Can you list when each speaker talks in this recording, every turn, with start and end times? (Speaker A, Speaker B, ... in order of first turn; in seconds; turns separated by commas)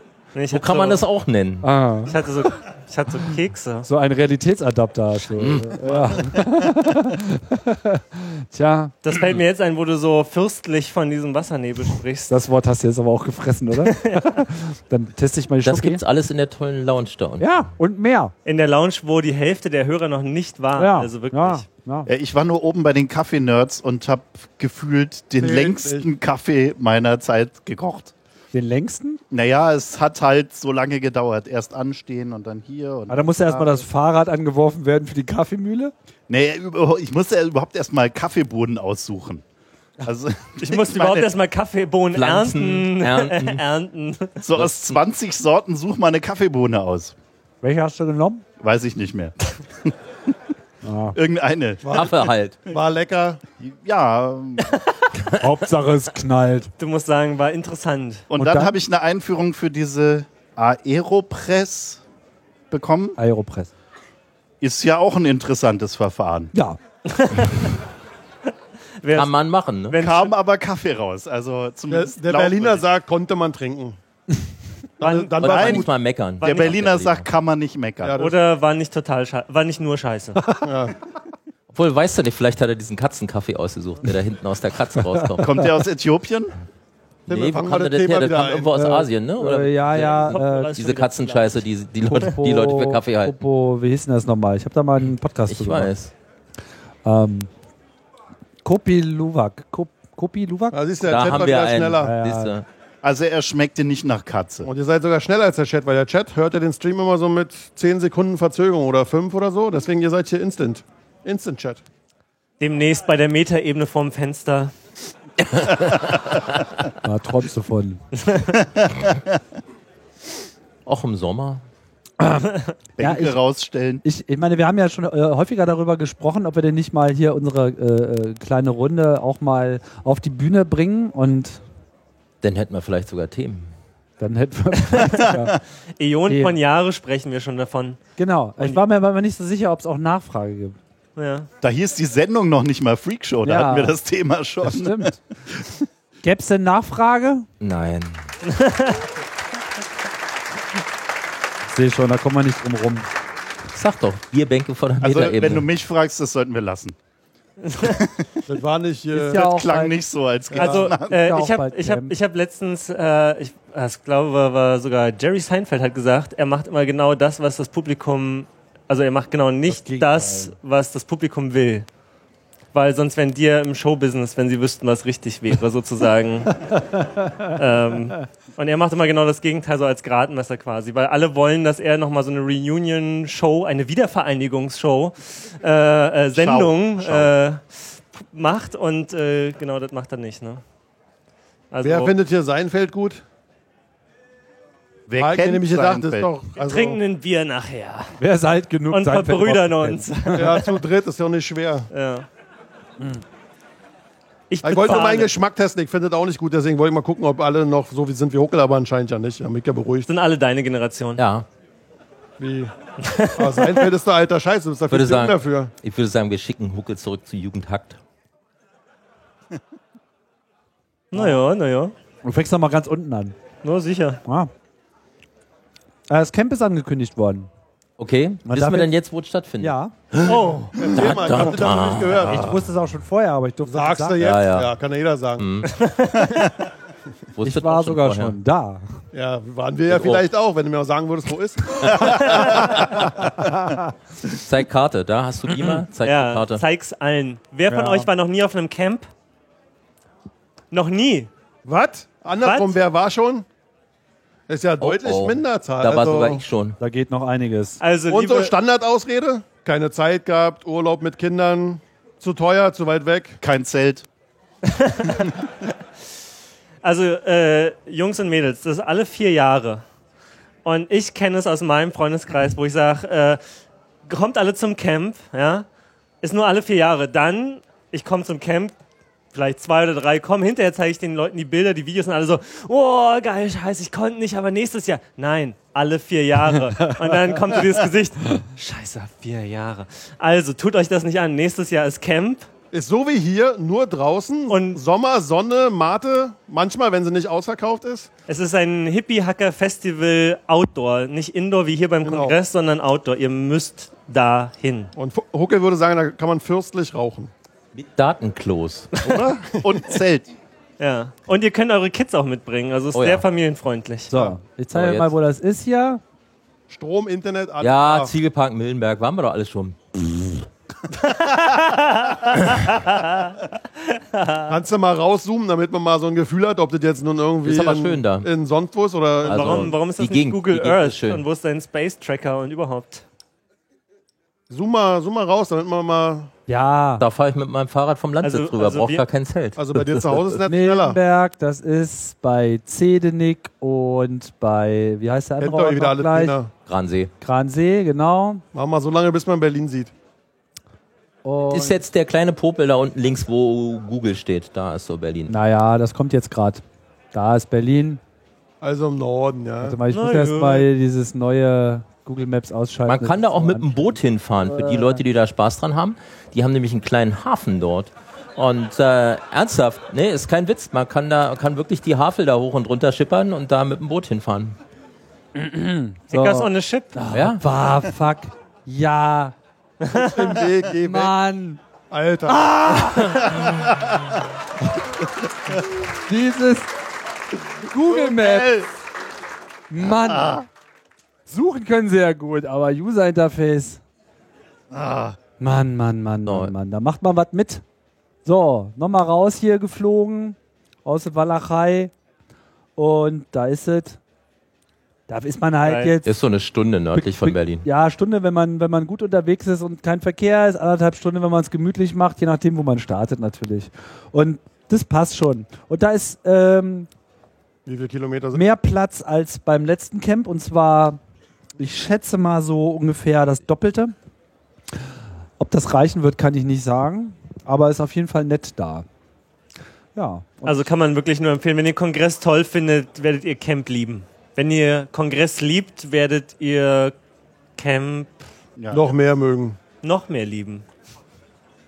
Speaker A: 0.3-1.0, Speaker B: 0.5-1.7, Speaker C: 1.6-2.1, Speaker A: 2.1-3.9, Speaker C: 3.9-8.9, Speaker B: 5.3-5.8, Speaker A: 9.0-12.3, Speaker C: 12.3-16.0, Speaker A: 13.8-14.4, Speaker B: 15.6-17.5, Speaker C: 17.4-18.3, Speaker A: 18.5-21.7, Speaker C: 20.8-22.1, Speaker D: 22.1-28.1, Speaker E: 25.4-26.1, Speaker C: 28.5-29.2, Speaker D: 29.3-33.8, Speaker C: 33.1-35.9, Speaker D: 36.3-39.4, Speaker D: 40.0-41.3, Speaker A: 40.6-44.4, Speaker B: 42.1-43.6, Speaker D: 44.4-47.1, Speaker C: 47.6-48.4, Speaker D: 48.6-49.9, Speaker C: 50.8-51.2, Speaker D: 51.1-52.0, Speaker E: 51.8-53.4, Speaker B: 51.9-52.6, Speaker D: 53.6-54.8, Speaker C: 55.4-56.7, Speaker A: 56.8-58.2, Speaker D: 58.3-62.0, Speaker C: 58.4-58.8, Speaker D: 62.7-63.2, Speaker C: 63.2-63.7, Speaker D: 64.6-66.5, Speaker C: 66.5-66.8, Speaker A: 67.1-67.8, Speaker A: 69.0-69.3, Speaker B: 69.1-70.0, Speaker A: 69.9-70.3, Speaker D: 70.0-72.8, Speaker E: 71.9-74.0, Speaker A: 75.0-75.8, Speaker E: 75.0-75.9, Speaker B: 75.4-77.3, Speaker D: 75.4-75.8, Speaker D: 76.4-78.2, Speaker A: 76.4-76.8, Speaker E: 78.0-78.4, Speaker A: 78.2-80.4, Speaker E: 80.6-81.0, Speaker B: 81.7-85.5, Speaker D: 85.4-86.5, Speaker E: 87.3-88.7, Speaker B: 87.3-93.4, Speaker C: 88.7-90.7, Speaker A: 89.9-91.7, Speaker C: 92.1-95.9, Speaker B: 95.5-96.1, Speaker C: 97.0-97.5, Speaker C: 98.6-100.8, Speaker E: 100.7-102.1, Speaker B: 101.0-102.7, Speaker C: 102.0-102.5, Speaker D: 103.0-104.7, Speaker E: 104.6-111.8, Speaker A: 112.6-114.7, Speaker C: 117.0-118.0, Speaker A: 118.2-118.5, Speaker B: 120.9-121.6, Speaker C: 122.2-123.4, Speaker D: 123.0-124.0, Speaker C: 124.0-131.6, Speaker B: 132.4-133.7, Speaker C: 134.2-135.6, Speaker A: 134.9-135.3, Speaker A: 136.0-138.0, Speaker C: 136.3-136.6, Speaker C: 138.2-140.8, Speaker A: 141.2-141.5, Speaker D: 141.6-145.8, Speaker C: 143.4-144.0, Speaker C: 144.6-145.2, Speaker C: 146.2-147.5, Speaker B: 147.6-148.3, Speaker A: 148.5-149.0, Speaker C: 151.7-153.1, Speaker B: 153.7-155.7, Speaker D: 155.0-156.9, Speaker A: 157.6-158.0, Speaker D: 157.8-158.2, Speaker E: 158.5-159.4, Speaker C: 159.1-160.0, Speaker D: 159.3-161.2, Speaker E: 160.5-160.8, Speaker A: 160.6-171.9, Speaker C: 161.0-162.1, Speaker C: 169.7-170.5, Speaker A: 172.7-176.8, Speaker C: 177.0-177.5, Speaker A: 177.5-190.6, Speaker D: 186.3-187.3, Speaker A: 191.7-192.2, Speaker E: 191.8-193.2, Speaker D: 195.1-196.3, Speaker E: 195.2-197.0, Speaker A: 196.6-198.2, Speaker C: 198.2-200.5, Speaker A: 198.9-200.8, Speaker E: 200.4-201.9, Speaker A: 201.9-202.3, Speaker A: 204.5-205.3, Speaker E: 204.6-210.1, Speaker A: 210.1-211.2, Speaker B: 211.2-211.5, Speaker E: 212.4-212.7, Speaker A: 213.0-213.9, Speaker E: 213.3-215.7, Speaker B: 214.9-218.0, Speaker A: 221.1-221.9, Speaker C: 221.1-221.4, Speaker C: 222.2-223.3, Speaker A: 223.6-224.2, Speaker C: 226.1-227.5, Speaker B: 228.0-232.6, Speaker C: 228.5-228.9, Speaker C: 229.6-229.9, Speaker E: 230.2-232.6, Speaker C: 232.3-234.2, Speaker E: 233.7-235.5, Speaker B: 234.2-234.7, Speaker B: 235.4-235.8, Speaker A: 235.8-236.4, Speaker B: 237.3-238.4, Speaker C: 237.4-238.9, Speaker E: 239.1-243.2, Speaker B: 239.9-240.3, Speaker C: 243.4-243.8, Speaker B: 244.3-246.6, Speaker A: 246.0-249.1, Speaker C: 247.7-248.1, Speaker A: 250.7-251.3, Speaker E: 251.7-253.4, Speaker A: 252.4-252.8, Speaker E: 254.5-256.4, Speaker B: 254.8-256.8, Speaker C: 256.8-257.8, Speaker A: 257.8-258.6, Speaker E: 258.1-263.4, Speaker D: 263.4-264.1, Speaker A: 264.7-265.3, Speaker A: 266.8-269.8, Speaker A: 270.6-273.4, Speaker A: 274.1-275.7, Speaker A: 276.2-278.7, Speaker A: 279.3-292.5, Speaker C: 286.8-287.4, Speaker E: 292.7-298.1, Speaker A: 294.5-294.8, Speaker A: 298.3-304.9, Speaker E: 302.0-302.4, Speaker E: 305.0-307.3, Speaker B: 307.7-309.0, Speaker D: 309.0-310.3, Speaker E: 309.5-309.9, Speaker A: 310.8-314.1, Speaker B: 312.9-313.2, Speaker C: 314.1-316.0, Speaker B: 314.7-315.1, Speaker E: 316.7-318.1, Speaker B: 317.6-320.4, Speaker A: 321.0-324.6, Speaker E: 324.5-329.8, Speaker B: 327.4-328.3, Speaker B: 329.2-331.2, Speaker A: 329.2-333.0, Speaker E: 334.5-336.3, Speaker C: 336.5-337.1, Speaker B: 337.0-340.4, Speaker A: 338.2-339.1, Speaker E: 339.6-341.0, Speaker C: 340.5-346.4, Speaker E: 345.4-346.5, Speaker B: 346.7-347.1, Speaker C: 347.2-348.4, Speaker E: 348.5-349.9, Speaker C: 351.2-351.8, Speaker B: 351.5-355.3, Speaker C: 355.3-358.0, Speaker E: 358.6-359.8, Speaker C: 359.6-365.0, Speaker A: 359.9-360.7, Speaker B: 362.9-374.6, Speaker C: 375.4-379.4, Speaker A: 376.1-376.9, Speaker B: 377.1-377.4, Speaker E: 379.9-381.1, Speaker C: 380.8-381.6, Speaker E: 381.9-382.9, Speaker C: 382.3-383.4, Speaker D: 383.4-383.9, Speaker C: 386.1-386.7, Speaker C: 387.6-388.5, Speaker D: 387.9-388.7, Speaker C: 389.7-390.4, Speaker D: 389.9-390.4, Speaker C: 391.3-393.8, Speaker D: 394.7-395.2, Speaker C: 395.4-397.6, Speaker B: 396.3-396.5, Speaker C: 398.2-401.9, Speaker C: 402.8-404.0, Speaker C: 405.1-406.1, Speaker A: 405.6-405.9, Speaker B: 406.0-407.6, Speaker C: 406.9-416.9, Speaker E: 417.7-418.4, Speaker C: 418.3-421.0, Speaker C: 421.6-423.9, Speaker C: 425.4-428.9, Speaker C: 430.0-430.7, Speaker A: 430.4-436.9, Speaker A: 437.6-438.3, Speaker D: 438.6-438.9, Speaker E: 438.7-439.6, Speaker A: 439.8-440.6